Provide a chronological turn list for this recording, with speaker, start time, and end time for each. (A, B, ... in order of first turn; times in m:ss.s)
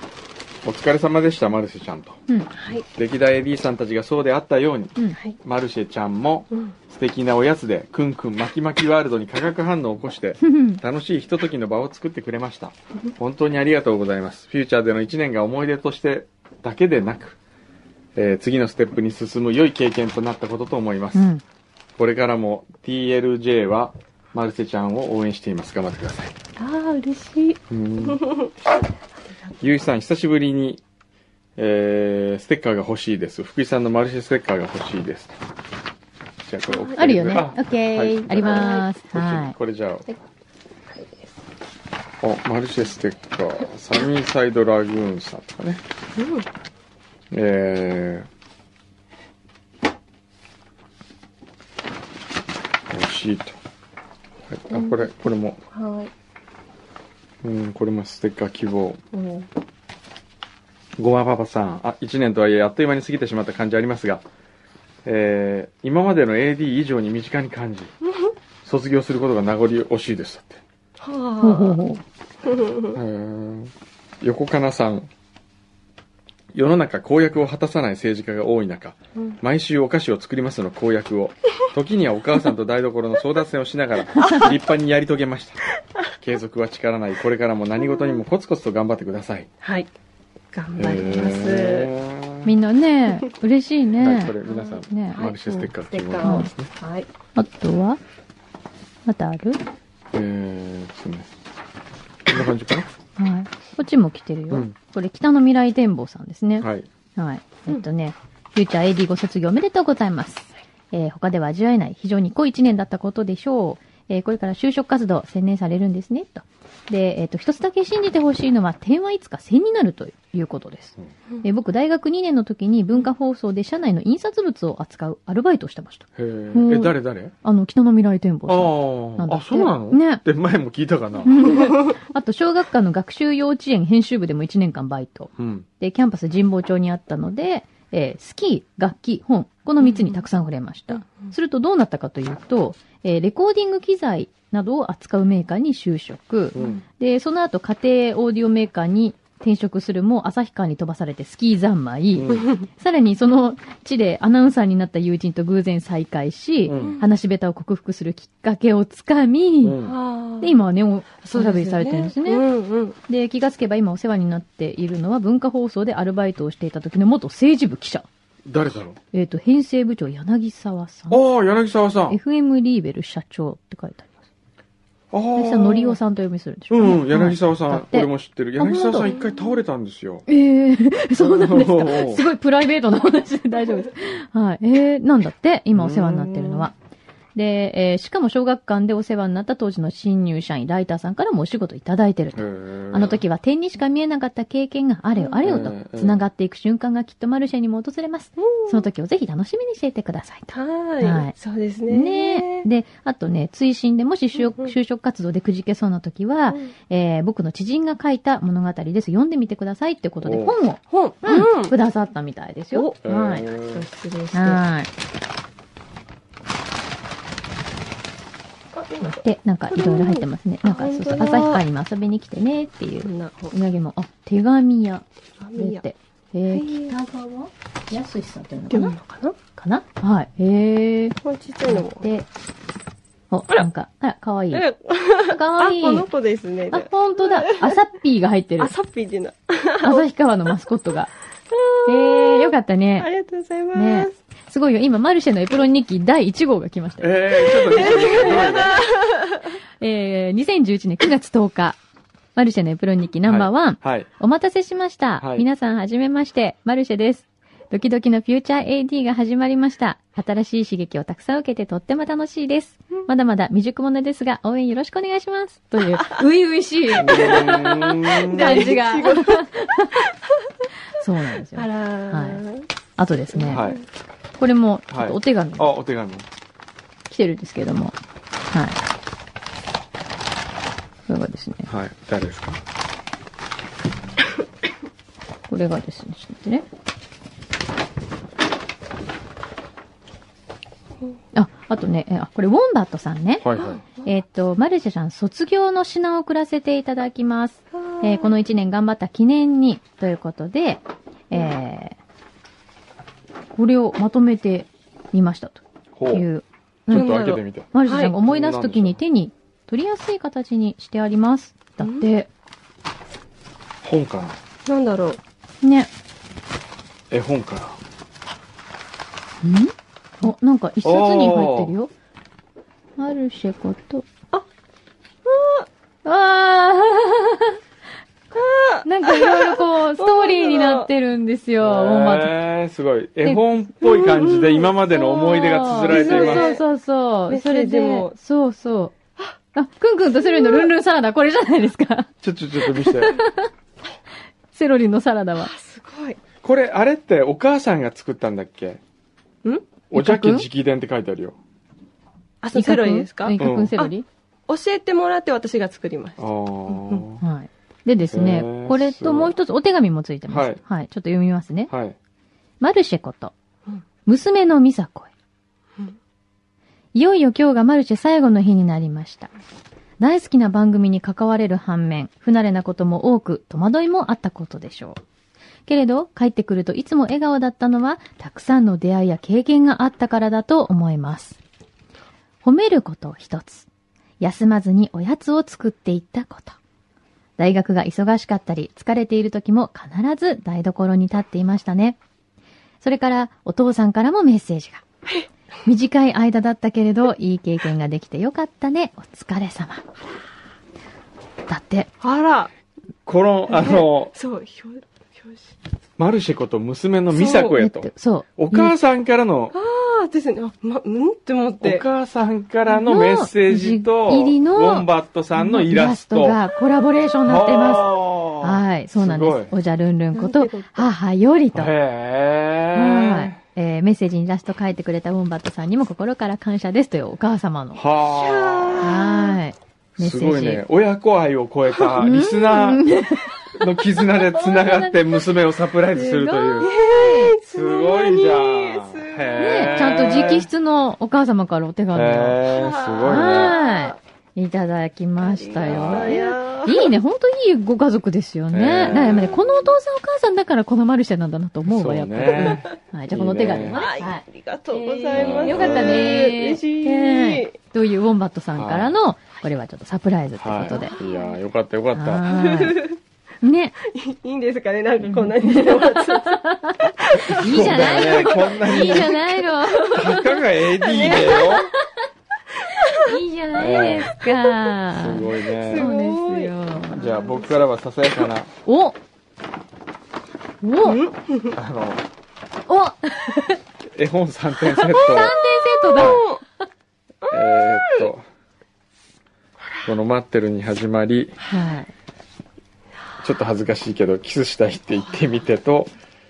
0:00.6-0:02.2 A
0:02.5-0:02.8 B
0:02.9-0:17.4 A
0:10.4-0:10.8 C
0:18.1-0:21.3 A
0:21.1-0:21.4 C
0:22.0-0:26.3 A
0:26.6-0:28.5 B
0:27.7-0:28.2 A
0:29.6-0:30.8 A
0:31.6-0:35.3 A
0:36.4-0:40.1 A
0:36.7-0:37.3 B
0:36.9-0:39.5 C
0:38.4-0:38.9 B
0:40.9-0:41.3 B
0:42.2-0:45.8 A
0:46.2-0:46.4 B
0:47.3-0:48.3 A
0:52.9-0:53.6 A
0:54.5-0:55.6 A
0:54.7-0:55.0 B
0:55.7-0:56.1 B
0:57.4-0:59.0 A
0:59.1-0:59.5 B
1:01.0-1:04.2 A
1:05.0-1:07.9 A
1:08.6-1:10.6 A
1:11.0-1:11.8 B
1:11.4-1:12.0 C
1:12.4-1:13.0 B
1:12.9-1:15.1 A
1:16.5-1:25.6 A
1:24.1-1:24.4 C
1:24.2-1:24.5 B
1:26.2-1:29.5 A
1:29.6-1:29.9 B
1:30.5-1:31.9 B
1:30.8-1:32.5 A
1:32.4-1:34.3 C
1:34.0-1:36.7 A
1:34.4-1:37.1 B
1:34.9-1:35.7 C
1:36.2-1:36.5 C
1:37.4-1:38.0 C
1:39.0-1:39.6 C
1:40.1-1:41.3 A
1:42.3-1:42.9 A
1:43.2-2:10.2 C
1:46.6-1:46.9 A
2:06.2-2:07.3 A
2:08.5-2:11.6 A
2:11.2-2:39.8 C
2:15.4-2:15.7 A
2:19.9-2:20.2 B
2:26.5-2:26.8 A
2:32.1-2:32.5 A
2:32.3-2:32.6 B
2:36.6-2:37.0 A
2:36.8-2:37.1 B
2:39.6-2:40.0 A
2:39.8-2:40.6 B
2:40.4-2:42.4 C
2:41.2-2:43.0 B
2:43.1-2:48.0 C
2:48.4-2:49.0 A
2:49.1-2:51.2 C
2:51.1-2:52.2 A
2:52.1-2:54.1 C
2:55.1-2:56.0 A
2:55.3-2:59.1 C
2:56.7-3:00.2 A
2:59.0-2:59.5 B
3:00.3-3:06.7 C
3:01.2-3:02.2 A
3:05.7-3:06.7 A
3:07.3-3:21.3 C
3:12.4-3:13.2 A
3:15.4-3:16.2 A
3:18.4-3:18.9 B
3:20.5-3:22.7 B
3:21.9-3:33.4 C
3:30.2-3:30.6 A
3:30.9-3:31.8 B
3:32.7-3:33.0 B
3:33.0-3:33.9 A
3:33.6-3:34.6 B
3:34.3-3:34.9 C
3:38.7-3:41.6 B
3:39.0-3:45.0 C
3:43.0-3:43.5 B
3:45.4-3:45.8 B
3:45.6-3:49.0 C
3:46.5-3:47.0 B
3:48.7-3:49.4 B
3:49.6-3:51.2 C
3:51.2-3:52.1 B
3:51.7-3:52.3 C
3:53.3-3:54.6 C
3:54.5-3:57.7 B
3:55.2-3:56.1 C
3:56.7-3:58.7 C
3:58.6-4:00.1 B
3:59.8-4:01.1 C
4:01.5-4:04.1 B
4:01.8-4:03.1 C
4:03.7-4:08.4 C
4:07.0-4:08.8 A
4:07.5-4:09.5 B
4:09.8-4:11.8 C
4:12.4-4:29.9 C
4:13.2-4:14.1 A
4:15.2-4:15.4 A
4:27.0-4:28.7 A
4:27.0-4:30.1 B
4:31.0-4:32.4 C
4:31.5-4:32.6 B
4:33.0-4:33.6 C
4:33.3-4:33.8 B
4:33.5-4:33.8 A
4:34.4-4:35.7 C
4:34.9-4:36.3 A
4:37.1-4:38.0 C
4:38.5-4:38.8 C
4:41.1-4:41.7 C
4:41.7-4:42.6 A
4:45.5-4:46.6 C
4:51.3-4:53.5 C
4:53.4-4:53.8 A
4:53.6-4:54.0 B
4:54.0-5:02.0 C
4:57.7-4:58.3 B
5:03.5-5:12.3 C
5:05.9-5:06.3 A
5:06.9-5:09.0 A
5:06.9-5:08.1 B
5:11.8-5:12.1 B
5:13.8-5:14.4 A
5:14.6-5:15.2 B
5:15.6-5:15.9 C
5:17.1-5:17.8 A
5:19.4-5:21.9 C
5:20.8-5:21.7 A
5:23.0-5:24.1 C
5:25.2-5:25.7 B
5:26.0-5:27.6 C
5:28.3-5:30.9 B
5:28.8-5:32.4 C
5:31.6-5:36.5 A
5:33.8-5:34.7 B
5:34.9-5:38.9 C
5:35.7-5:36.6 B
5:37.3-5:38.2 B
5:39.5-5:42.1 C
5:40.2-5:40.7 B
5:42.2-5:43.2 A
5:42.6-5:43.5 C
5:44.5-5:45.5 C
5:45.4-5:46.2 B
5:46.4-5:48.8 A
5:49.9-5:51.4 A
5:49.9-5:50.5 C
5:52.4-5:53.9 B
5:52.5-5:54.0 C
5:53.4-5:53.7 A
5:54.5-5:57.0 B
5:56.2-5:57.2 A
5:57.2-6:01.7 C
5:58.1-5:59.3 A
6:00.3-6:00.6 A
6:01.7-6:02.0 A
6:02.6-6:03.3 C
6:04.0-6:05.1 C
6:06.9-6:09.3 C
6:10.0-6:15.0 C
6:15.7-6:21.4 C
6:22.4-6:23.7 C
6:24.2-6:26.6 C
6:27.4-6:32.0 C
6:32.8-6:34.8 C
6:35.6-6:39.8 C
6:41.5-6:41.9 C
6:42.0-6:42.5 B
6:43.0-6:44.1 A
6:43.5-6:45.6 B
6:46.0-6:49.5 A
6:47.1-6:47.6 B
6:47.6-6:48.7 C
6:49.5-6:51.8 B
6:51.6-6:56.4 A
6:52.8-7:01.7 C
6:57.2-6:59.5 A
7:00.1-7:00.9 B
7:01.5-7:03.4 A
7:02.7-7:07.8 C
7:07.7-7:09.0 A
7:08.0-7:09.4 B
7:08.8-7:10.6 C
7:10.0-7:12.8 A
7:12.0-7:13.5 C
7:13.5-7:16.7 A
7:14.1-7:15.0 C
7:16.0-7:17.3 C
7:16.1-7:20.4 B
7:17.5-7:20.4 A
7:19.4-7:22.4 C
7:21.9-7:23.6 A
7:22.4-7:24.0 B
7:23.0-7:41.3 C
7:25.2-7:26.9 B
7:25.6-7:26.2 A
7:28.5-7:29.5 A
7:31.6-7:33.9 A
7:33.7-7:37.6 B
7:35.1-7:36.3 A
7:38.6-7:38.9 A
7:40.4-7:42.3 A
7:40.7-7:41.3 B
7:41.9-7:42.9 C
7:42.2-7:43.0 B
7:43.4-7:43.8 C
7:43.8-7:46.4 B
7:45.1-7:50.4 C
7:47.0-7:50.2 B
7:47.1-7:49.2 A
7:49.9-7:51.7 A
7:50.8-7:51.6 B
7:51.0-7:51.6 C
7:52.7-7:53.1 B
7:52.9-7:57.1 C
7:53.5-7:54.2 A
7:54.9-7:55.9 A
7:55.5-7:57.6 B
7:56.9-7:58.5 A
7:58.6-7:59.0 C
8:00.6-8:01.1 C
8:00.8-8:01.5 B
8:01.5-8:02.0 A
8:02.7-8:03.6 C
8:03.9-8:05.3 A
8:04.7-8:06.3 C
8:05.0-8:06.4 B
8:06.0-8:06.2 A
8:07.2-8:08.1 B
8:07.3-8:08.2 A
8:09.8-8:11.4 A
8:11.5-8:11.9 C
8:13.2-8:15.9 A